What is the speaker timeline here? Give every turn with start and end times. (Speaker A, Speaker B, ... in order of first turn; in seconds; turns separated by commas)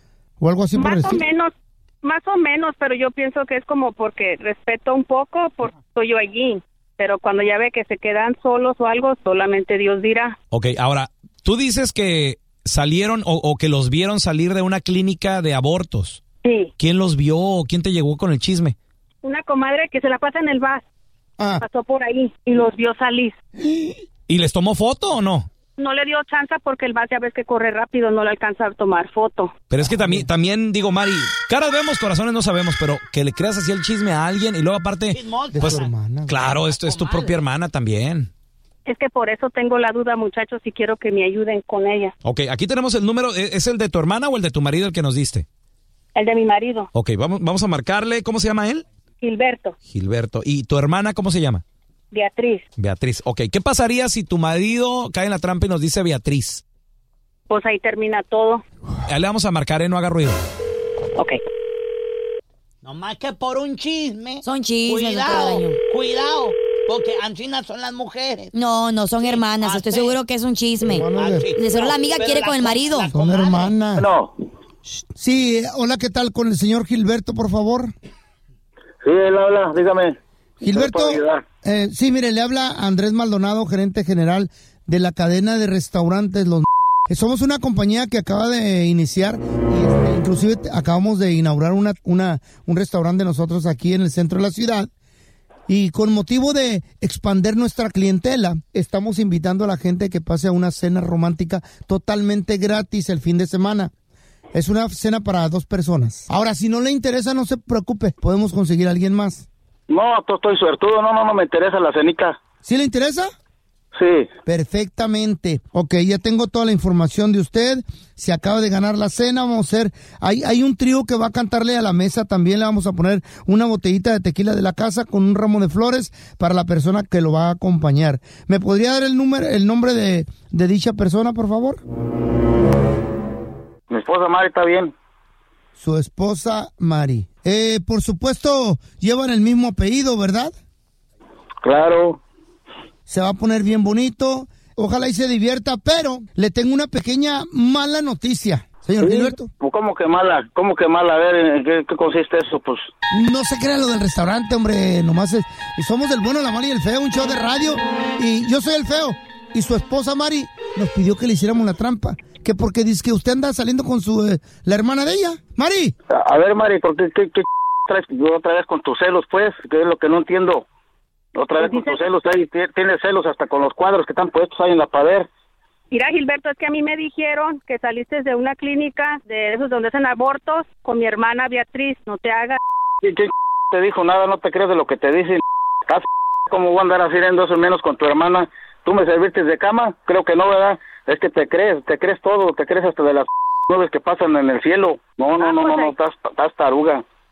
Speaker A: 0.4-1.2, Speaker B: 0.7-10.3, Speaker C: 10.5-16.2, Speaker B: 16.4-16.7, Speaker C: 16.8-18.7, Speaker B: 19.2-20.8, Speaker A: 21.4-21.6, Speaker B: 21.6-23.4, Speaker A: 23.6-23.9, Speaker C: 24.3-25.5, Speaker B: 25.8-29.5, Speaker C: 29.7-38.3, Speaker A: 29.8-30.2, Speaker D: 35.1-35.9, Speaker A: 35.5-36.5, Speaker D: 36.7-37.4, Speaker B: 38.9-42.1, Speaker C: 42.2-45.5, Speaker B: 46.1-46.9, Speaker C: 46.9-48.8, Speaker B: 49.2-49.7, Speaker C: 49.9-51.6, Speaker B: 52.1-52.6, Speaker C: 52.8-56.6, Speaker B: 57.5-58.6, Speaker C: 59.1-60.4, Speaker D: 62.8-68.5, Speaker E: 64.4-65.8, Speaker E: 68.5-73.1, Speaker D: 69.2-70.2, Speaker A: 70.8-71.5, Speaker D: 71.1-73.7, Speaker A: 73.1-74.1, Speaker F: 74.0-74.3, Speaker A: 75.0-77.9, Speaker F: 79.0-80.2, Speaker A: 80.6-94.9, Speaker F: 80.7-81.5, Speaker A: 95.7-103.9, Speaker A: 104.5-109.5, Speaker F: 109.9-112.4, Speaker A: 112.6-113.3, Speaker F: 113.9-114.3, Speaker A: 114.5-131.8, Speaker F: 133.9-134.9, Speaker A: 135.8-140.5, Speaker F: 141.6-142.2, Speaker A: 143.1-149.5, Speaker F: 149.0-152.9, Speaker A: 153.1-165.9, Speaker F: 166.1-170.6, Speaker F: 171.3-175.3, Speaker B: 171.6-172.0, Speaker B: 175.9-182.6, Speaker F: 183.0-197.0, Speaker B: 195.4-195.9